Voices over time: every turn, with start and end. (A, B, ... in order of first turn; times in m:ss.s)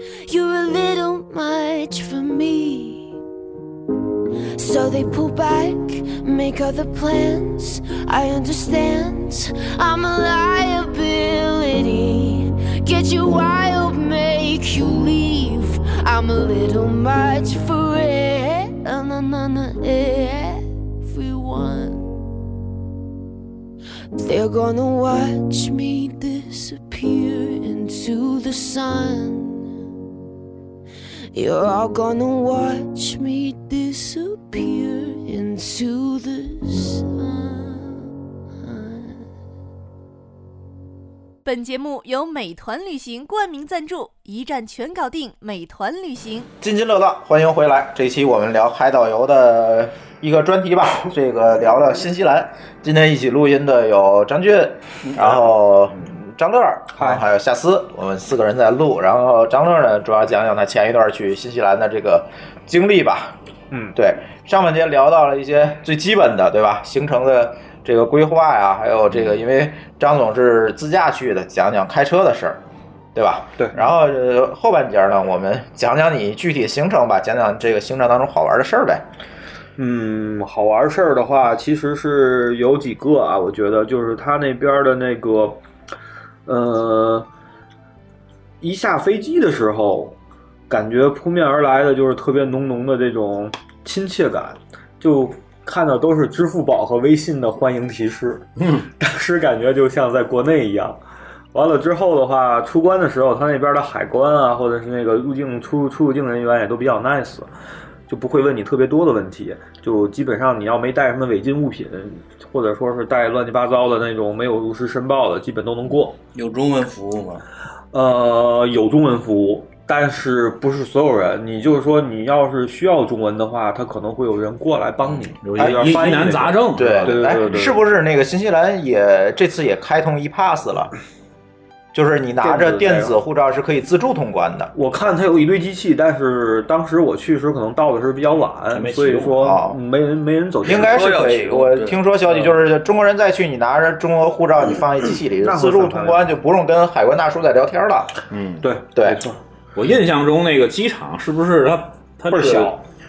0:00.3-0:03.1 A
0:04.6-0:22.1 A
0:24.2-0:29.6 A
0:31.3-0:38.0 A
0:38.6-0:39.2 A
0:41.4-0:46.5 B
0:46.6-1:03.4 C
0:56.9-0:57.2 D
1:03.9-1:12.6 C
1:13.1-1:19.0 C
1:13.6-1:13.9 D
1:19.8-1:25.6 D
1:26.4-1:27.3 D
1:28.6-1:30.1 D
1:30.7-1:38.4 D
1:39.0-1:41.0 D
1:41.5-1:47.5 D
1:48.1-1:56.2 D
1:56.3-1:57.4 E
1:57.9-2:07.8 D
2:05.4-2:07.1 F
2:05.6-2:05.9 C
2:06.7-2:10.9 C
2:11.9-2:14.7 C
2:12.4-2:13.2 D
2:14.7-2:21.2 D
2:18.7-2:19.4 F
2:19.4-2:19.8 C
2:20.6-2:22.0 E
2:20.6-2:28.1 C
2:22.3-2:22.5 D
2:25.4-2:26.3 D
2:28.3-2:28.6 F
2:28.6-2:29.4 D
2:28.9-2:29.2 C
2:29.7-2:32.8 F
2:32.3-2:32.8 D